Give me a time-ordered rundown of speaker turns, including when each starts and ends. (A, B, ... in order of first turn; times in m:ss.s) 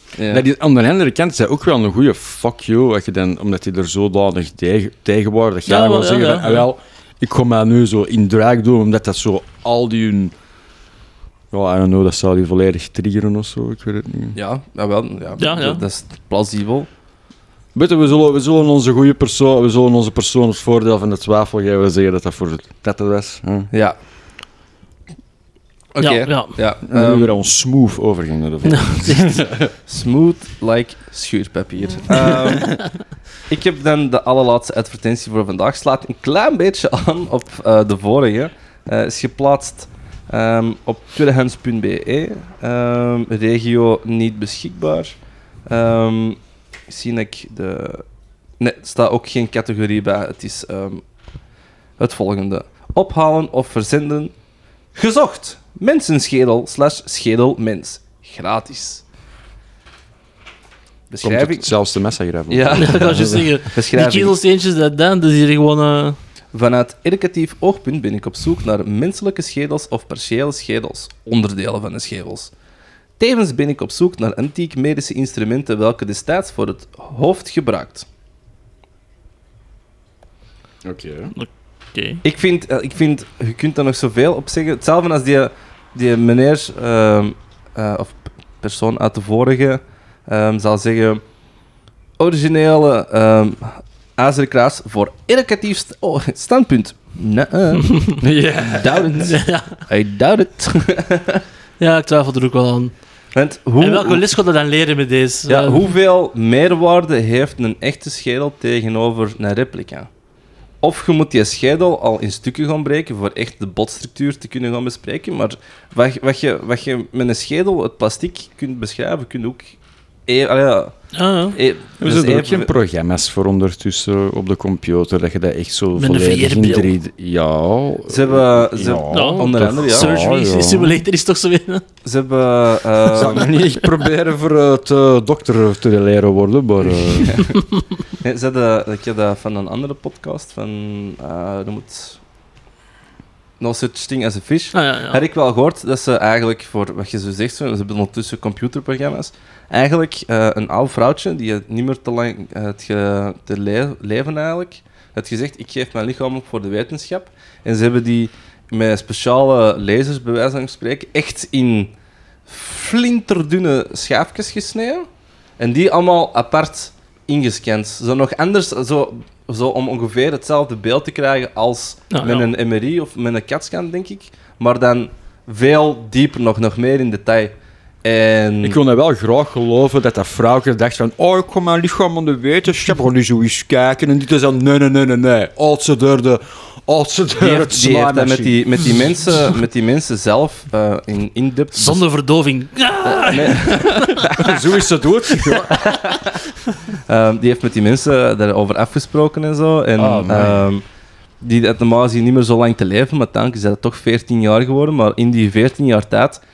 0:00.1-0:00.4 A
0:00.3-0:10.3 B
0:05.6-0:06.7 C
0:11.5-0:14.4 B
0:14.3-0:16.9 A
0:15.4-0:15.8 C
0:17.7-0:23.7 B
0:23.7-0:24.0 A
0:25.9-0:27.3 A
0:26.0-0:26.6 C
0:26.8-0:29.7 B
0:28.6-0:29.4 C
0:29.9-0:32.9 A
0:33.5-0:48.0 A
0:48.6-0:51.0 A
0:52.0-0:54.3 A
0:54.9-0:59.0 A
1:01.1-1:01.7 A
1:01.2-1:03.5 B
1:02.5-1:04.4 A
1:02.7-1:06.2 C
1:06.5-1:12.5 A
1:13.2-1:18.1 A
1:20.8-1:21.3 B
1:21.4-1:22.2 C
1:22.2-1:31.2 A
1:32.2-1:38.0 A
1:37.9-1:38.1 C
1:38.2-1:39.1 B
1:38.6-1:41.4 A
1:39.2-1:39.8 C
1:41.8-1:42.9 C
1:43.3-1:44.3 A
1:43.8-1:45.9 C
1:45.5-1:50.1 A
1:50.8-2:01.0 A
2:01.1-2:01.6 C
2:01.5-2:02.7 A
2:02.0-2:11.0 B
2:06.0-2:06.9 C
2:08.1-2:10.1 A
2:09.1-2:11.8 C
2:12.0-2:13.5 A
2:13.1-2:17.5 B
2:17.2-2:17.6 A
2:18.2-2:22.2 A
2:23.6-2:41.9 A
2:24.7-2:25.2 C
2:42.5-2:45.1 A
2:45.6-2:58.8 A
2:52.1-2:52.5 C
2:58.6-3:08.9 B
3:07.4-3:12.0 A
3:11.7-3:14.4 C
3:13.0-3:14.5 A
3:13.7-3:16.0 B
3:15.7-3:16.3 A
3:17.1-3:20.8 A
3:20.0-3:20.6 B
3:21.4-3:26.4 A